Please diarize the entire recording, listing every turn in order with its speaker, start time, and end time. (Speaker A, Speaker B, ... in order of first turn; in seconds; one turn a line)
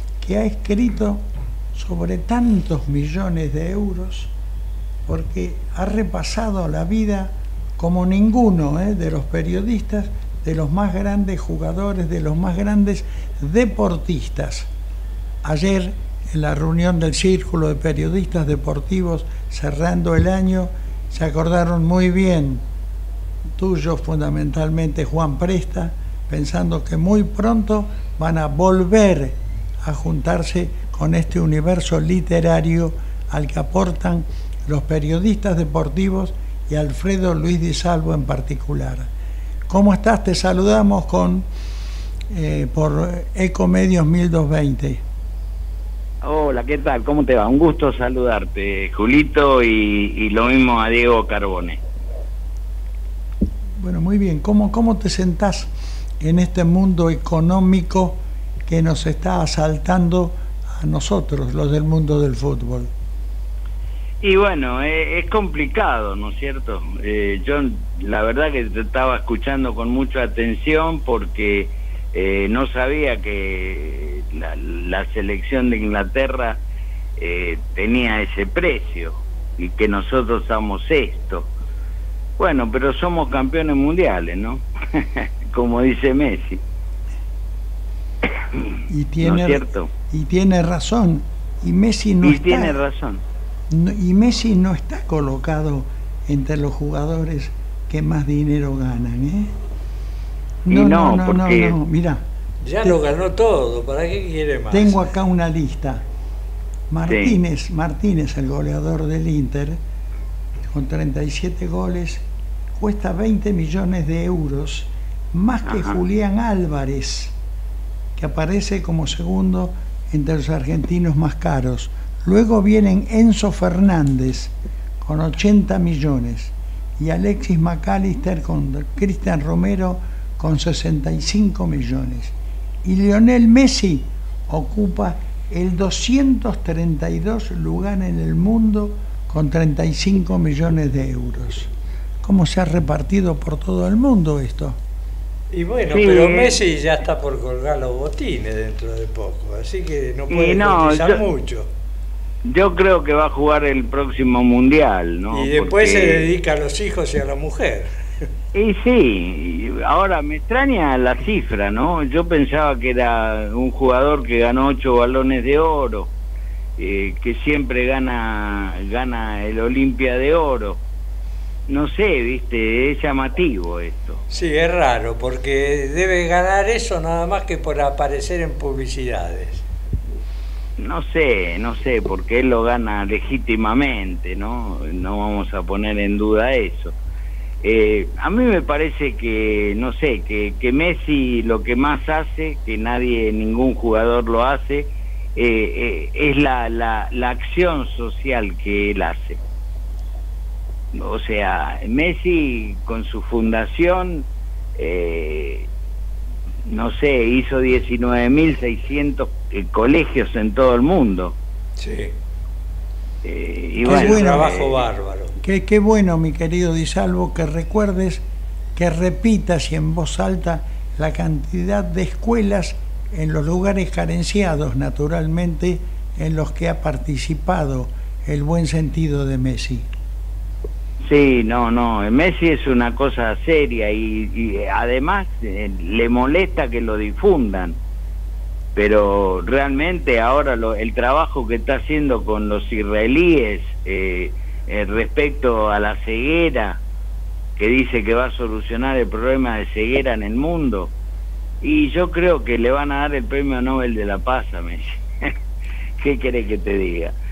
Speaker A: 0.2-4.3
Speaker A: 5.0-14.7
Speaker A: 15.4-22.6
Speaker A: 23.6-39.1
Speaker A: 39.7-41.5
Speaker A: 42.3-45.0
Speaker B: 46.2-51.8
Speaker A: 53.8-62.9
Speaker B: 64.2-76.6
Speaker B: 77.2-81.5
Speaker B: 82.4-86.6
Speaker B: 88.4-89.9
Speaker A: 88.9-92.8
Speaker B: 92.2-93.2
Speaker A: 93.7-99.5
Speaker A: 100.6-102.2
Speaker B: 100.7-101.8
Speaker C: 102.6-105.0
Speaker A: 104.7-106.0
Speaker A: 106.9-109.8
Speaker B: 107.1-107.4
Speaker A: 110.7-112.2
Speaker A: 112.8-117.3
Speaker B: 115.7-116.0
Speaker A: 118.2-141.7
Speaker A: 142.2-144.8
Speaker C: 145.5-151.7
Speaker B: 145.9-146.6
Speaker B: 150.3-151.2
Speaker B: 152.4-156.3
Speaker C: 155.3-157.9
Speaker B: 158.5-166.1
Speaker B: 166.8-170.8
Speaker B: 171.7-174.2
Speaker C: 174.3-179.7
Speaker B: 180.8-186.9
Speaker B: 187.6-199.4
Speaker B: 200.9-205.7
Speaker B: 206.7-211.3
Speaker C: 211.8-212.1
Speaker B: 213.2-214.8
Speaker A: 213.8-214.5
Speaker C: 213.8-215.3
Speaker A: 215.4-218.2
Speaker A: 218.8-229.9
Speaker B: 231.0-237.8
Speaker B: 238.7-246.8
Speaker B: 247.6-250.9
Speaker B: 251.6-255.3
Speaker B: 256.0-257.1